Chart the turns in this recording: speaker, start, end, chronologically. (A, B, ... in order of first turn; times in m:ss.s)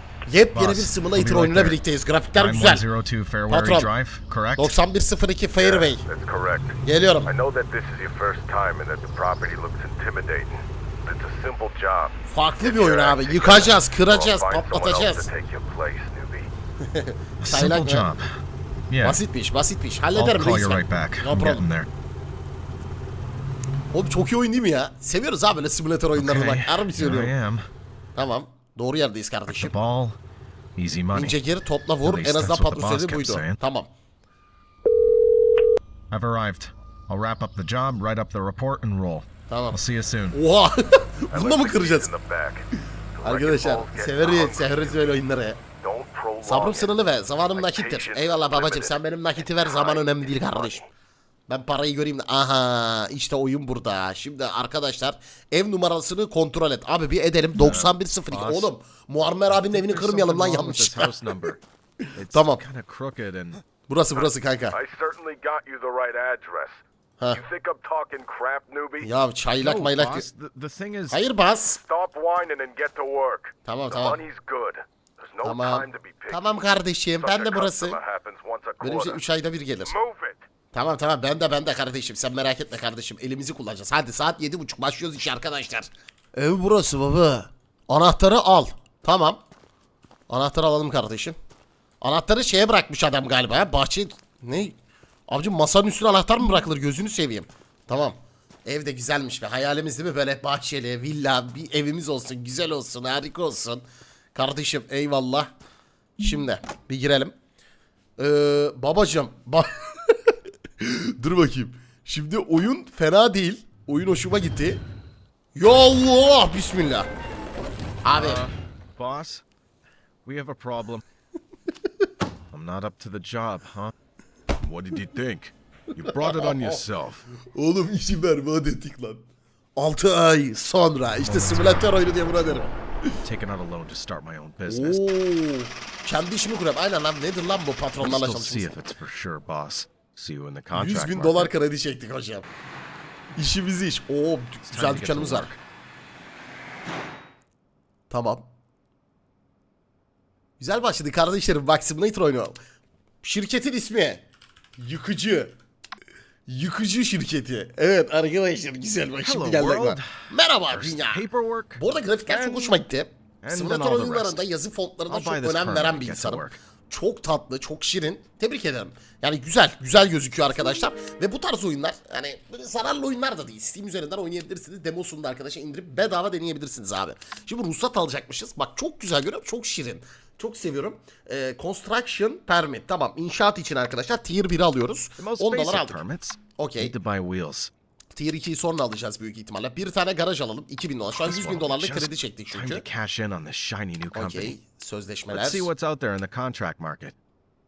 0:00.3-0:02.9 A
0:00.5-0:01.8 B
0:02.4-0:04.8 B
0:03.5-0:03.9 A
0:04.6-0:06.0 A
0:05.6-0:06.7 B
0:05.8-0:06.7 C
0:06.8-0:07.3 A
0:07.3-0:16.5 C
0:07.4-0:10.5 B
0:11.1-0:12.0 B
0:12.3-0:15.3 A
0:12.7-0:16.4 B
0:16.8-0:18.1 A
0:17.4-0:18.4 B
0:18.9-0:19.2 B
0:19.0-0:21.6 A
0:20.2-0:21.9 B
0:23.9-0:27.3 A
0:26.2-0:27.7 B
0:28.2-0:29.7 A
0:29.5-0:30.2 B
0:30.8-0:31.4 B
0:31.1-0:33.9 A
0:32.0-0:33.6 B
0:36.1-0:40.4 B
0:39.5-0:39.8 A
0:40.3-0:42.1 A
0:41.3-0:42.6 B
0:41.3-0:42.6 C
0:43.2-0:45.1 C
0:43.2-0:45.6 A
0:43.2-0:44.9 B
0:45.8-0:46.9 C
0:45.8-0:46.8 B
0:46.4-0:50.9 A
0:47.6-0:48.9 C
0:47.6-0:48.6 B
0:49.7-0:50.6 C
0:51.5-1:01.1 A
0:57.6-0:58.7 B
0:59.5-1:01.6 B
1:02.1-1:02.6 A
1:02.2-1:03.6 B
1:03.9-1:04.8 A
1:04.7-1:06.8 C
1:07.4-1:09.1 C
1:09.0-1:10.3 A
1:09.6-1:11.2 B
1:11.1-1:11.8 A
1:11.8-1:16.5 C
1:13.6-1:14.2 A
1:15.4-1:18.0 A
1:15.4-1:16.3 B
1:17.2-1:19.2 C
1:17.2-1:18.2 B
1:18.8-1:19.1 B
1:18.8-1:20.0 A
1:19.9-1:20.4 C
1:20.7-1:29.4 A
1:30.3-1:31.4 A
1:32.0-1:34.8 A
1:35.3-1:43.8 A
1:44.4-1:45.5 A
1:46.2-1:47.3 A
1:48.2-1:54.8 A
1:55.6-1:57.1 A
1:58.0-1:58.5 A
1:58.2-1:59.4 B
2:00.2-2:01.0 B
2:02.5-2:03.9 B
2:04.6-2:07.2 B
2:06.0-2:09.2 A
2:09.8-2:13.2 A
2:11.2-2:11.9 B
2:13.2-2:15.0 B
2:14.7-2:18.7 A
2:18.0-2:21.5 B
2:20.7-2:22.5 A
2:23.4-2:25.5 A
2:24.7-2:25.6 B
2:28.1-2:28.5 A
2:30.6-2:32.6 A
2:33.2-2:34.2 A
2:34.8-2:35.5 A
2:36.5-3:06.0 A
2:39.2-2:42.8 B
2:43.4-2:44.4 B
2:45.1-2:46.6 B
3:05.2-3:07.7 B
3:06.6-3:06.9 A
3:08.1-3:12.8 A
3:11.2-3:14.6 B
3:14.1-3:15.7 A
3:15.3-3:17.2 B